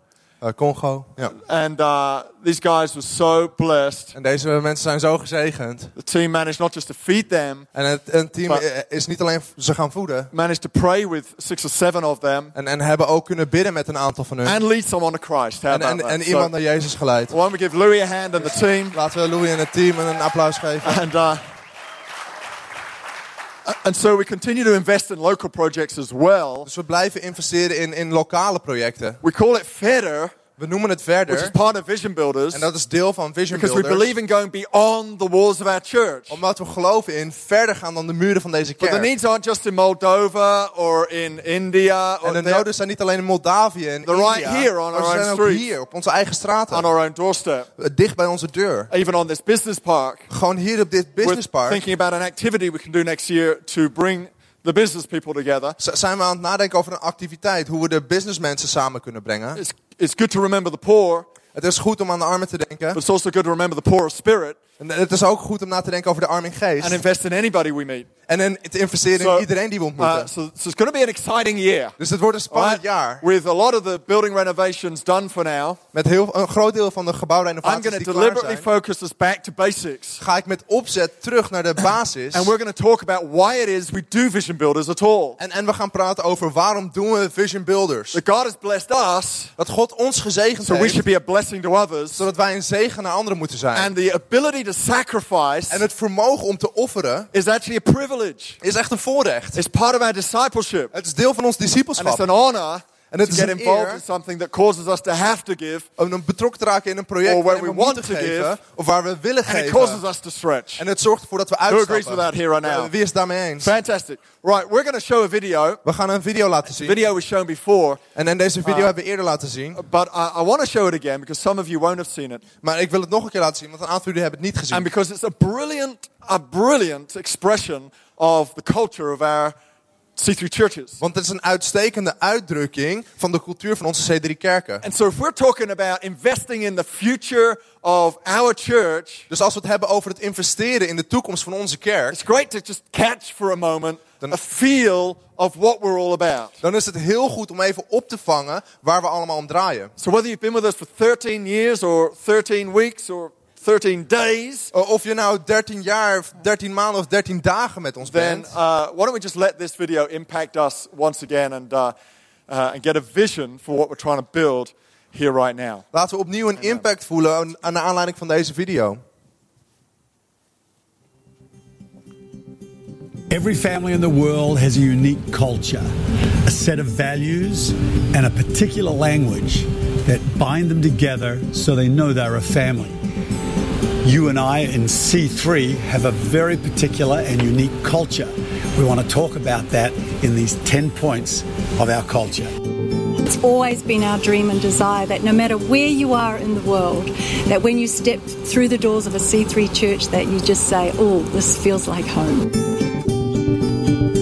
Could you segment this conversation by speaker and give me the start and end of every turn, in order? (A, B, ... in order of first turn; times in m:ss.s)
0:00.4-0:01.4 A
0:01.4-0:04.2 B
0:04.1-0:05.9 A
0:06.0-0:07.7 B
0:07.7-0:10.3 A
0:10.3-0:12.5 B
0:12.6-0:14.6 A
0:14.4-0:16.5 B
0:15.7-0:17.3 A
0:17.3-0:19.0 B
0:18.4-0:21.0 A
0:20.8-0:21.4 B
0:23.7-0:26.7 B
0:26.6-0:29.2 A
0:29.2-0:30.4 B
0:30.6-0:31.6 A
0:31.3-0:32.7 B
0:32.5-0:34.1 A
0:33.5-0:36.4 B
0:36.3-0:39.1 A
0:38.8-0:42.7 B
0:42.2-0:46.9 A
0:44.0-0:45.7 B
0:46.7-0:47.7 B
0:47.8-0:48.9 A
0:48.9-0:50.3 B
0:50.3-0:51.8 A
0:51.2-0:55.8 B
0:55.8-0:59.6 A
0:59.6-1:01.3 B
1:01.5-1:03.0 A
1:02.9-1:04.6 B
1:04.8-1:07.0 A
1:06.8-1:08.1 B
1:08.3-1:10.3 A
1:09.2-1:12.0 B
1:12.0-1:13.2 A
1:12.5-1:15.8 B
1:15.9-1:18.7 A
1:17.6-1:20.2 B
1:20.2-1:22.5 A
1:22.3-1:25.4 B
1:25.4-1:28.2 A
1:28.1-1:29.5 B
1:29.6-1:31.0 A
1:30.6-1:32.2 B
1:32.2-1:33.9 A
1:33.7-1:35.8 B
1:35.7-1:37.3 A
1:37.3-1:38.6 B
1:38.6-1:39.6 A
1:39.6-1:40.9 B
1:40.9-1:42.2 A
1:42.0-1:45.9 B
1:43.1-1:44.0 A
1:46.0-1:50.0 A
1:47.2-1:48.6 B
1:49.5-1:50.8 B
1:50.8-1:53.7 A
1:51.7-1:52.9 B
1:53.6-1:55.8 B
1:55.8-1:57.0 A
1:56.8-1:58.0 B
1:58.2-1:59.8 A
1:58.6-1:58.9 B
1:59.8-2:02.4 B
2:02.6-2:04.9 A
2:04.7-2:09.6 B
2:10.2-2:11.0 B
2:11.0-2:14.8 A
2:14.8-2:19.3 B
2:19.3-2:22.2 A
2:22.1-2:26.6 B
2:26.6-2:29.9 A
2:30.0-2:34.7 B
2:34.7-2:38.5 A
2:38.0-2:42.0 B
2:42.5-2:45.8 B
2:45.9-2:49.0 A
2:53.3-2:55.9 C
2:56.4-3:03.0 C
3:04.0-3:12.5 C
3:13.2-3:22.6 D